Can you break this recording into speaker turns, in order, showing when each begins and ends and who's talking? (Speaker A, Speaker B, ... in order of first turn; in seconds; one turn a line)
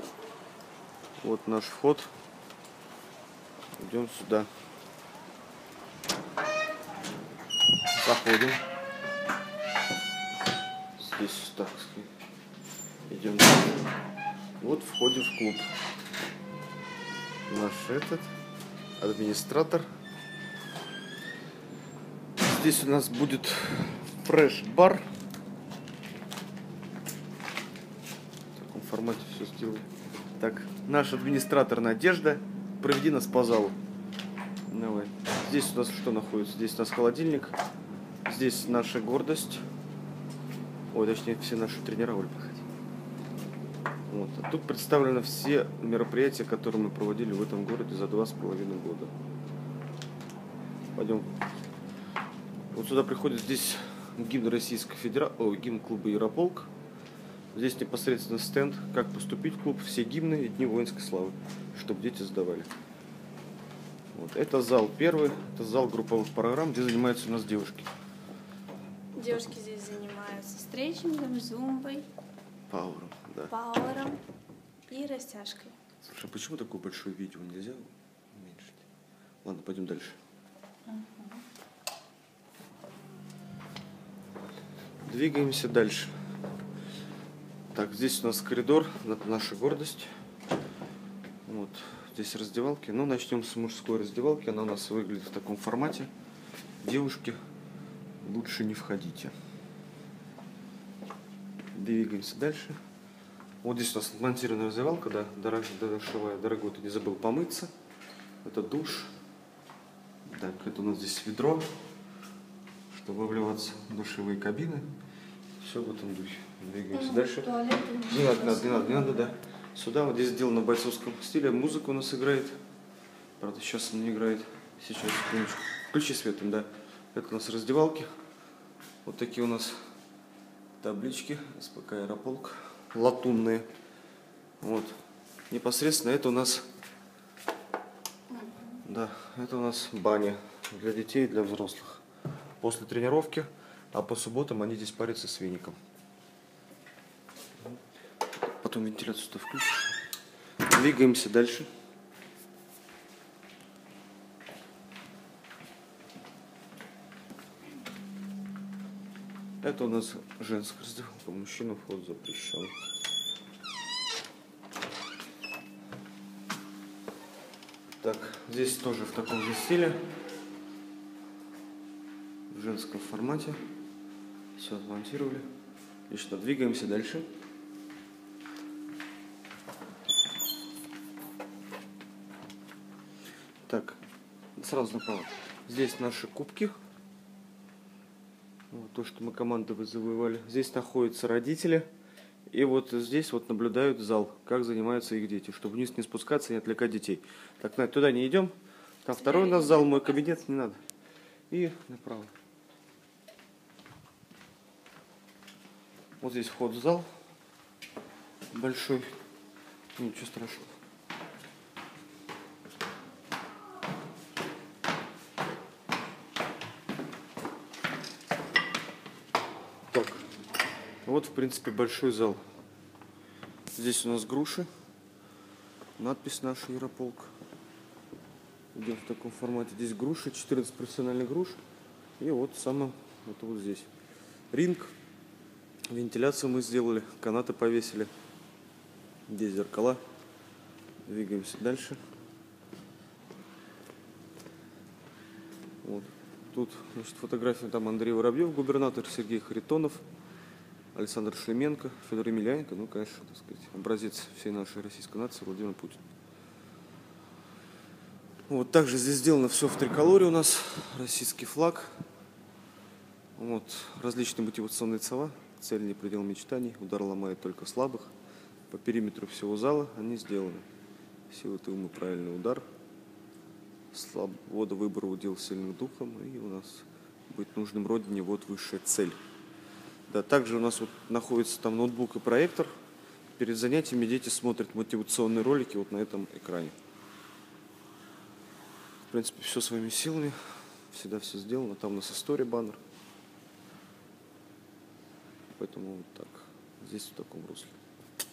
Speaker A: 1.2-2.1
Speaker A: 3.8-4.5
Speaker A: 8.0-8.6
Speaker A: 11.0-12.1
Speaker A: 13.1-13.9
Speaker A: 14.6-15.7
Speaker A: 17.5-18.3
Speaker A: 19.0-19.9
Speaker A: 22.4-25.0
Speaker A: 28.5-33.8
Speaker A: 34.7-37.6
Speaker A: 38.2-39.6
Speaker A: 40.9-42.6
Speaker A: 44.1-49.1
Speaker A: 50.9-51.3
Speaker A: 52.7-56.7
Speaker A: 57.5-62.7
Speaker A: 64.1-67.9
Speaker B: 69.2-72.1
Speaker A: 72.7-73.5
Speaker B: 73.5-74.2
Speaker B: 74.9-75.7
Speaker A: 76.0-78.8
Speaker A: 79.4-80.2
Speaker B: 80.9-81.4
Speaker A: 85.0-86.1
Speaker A: 87.7-90.1
Speaker A: 91.5-96.1
Speaker A: 96.8-97.4
Speaker A: 98.2-99.3
Speaker A: 101.7-102.8
Speaker A: 103.6-107.7
Speaker A: 108.4-109.1
Speaker A: 110.2-111.7
Speaker A: 112.9-114.9
Speaker A: 115.6-122.5
Speaker B: 117.1-118.8
Speaker A: 123.4-128.1
Speaker A: 129.0-129.8
Speaker A: 130.8-133.7
Speaker A: 134.6-134.9
Speaker A: 135.5-136.6
Speaker B: 138.3-138.8
Speaker A: 138.8-142.0
Speaker A: 142.6-145.8
Speaker A: 148.6-149.9
Speaker A: 150.7-151.7
Speaker A: 159.6-162.7
Speaker A: 168.0-170.0
Speaker A: 172.5-173.6
Speaker A: 174.6-175.4
Speaker A: 176.1-177.2
Speaker A: 183.7-184.0
Speaker A: 184.6-186.7
Speaker A: 188.7-191.9
Speaker A: 192.5-200.8
Speaker B: 199.2-200.1
Speaker A: 201.5-202.3
Speaker A: 206.2-207.1
Speaker A: 208.5-209.1
Speaker A: 209.9-210.7
Speaker A: 219.9-220.2
Speaker A: 221.0-222.4
Speaker A: 223.7-224.7
Speaker A: 226.0-227.3
Speaker A: 228.7-231.6
Speaker A: 232.2-233.9
Speaker A: 234.5-234.9
Speaker A: 235.9-238.1
Speaker A: 239.3-240.0
Speaker A: 241.1-242.0
Speaker A: 245.8-250.0
Speaker A: 250.9-256.0
Speaker A: 258.5-262.0
Speaker A: 263.4-268.1
Speaker A: 268.7-270.6
Speaker A: 271.3-272.6
Speaker A: 273.9-279.2
Speaker A: 280.1-282.7
Speaker A: 283.4-286.7
Speaker A: 289.1-292.8
Speaker A: 295.6-297.8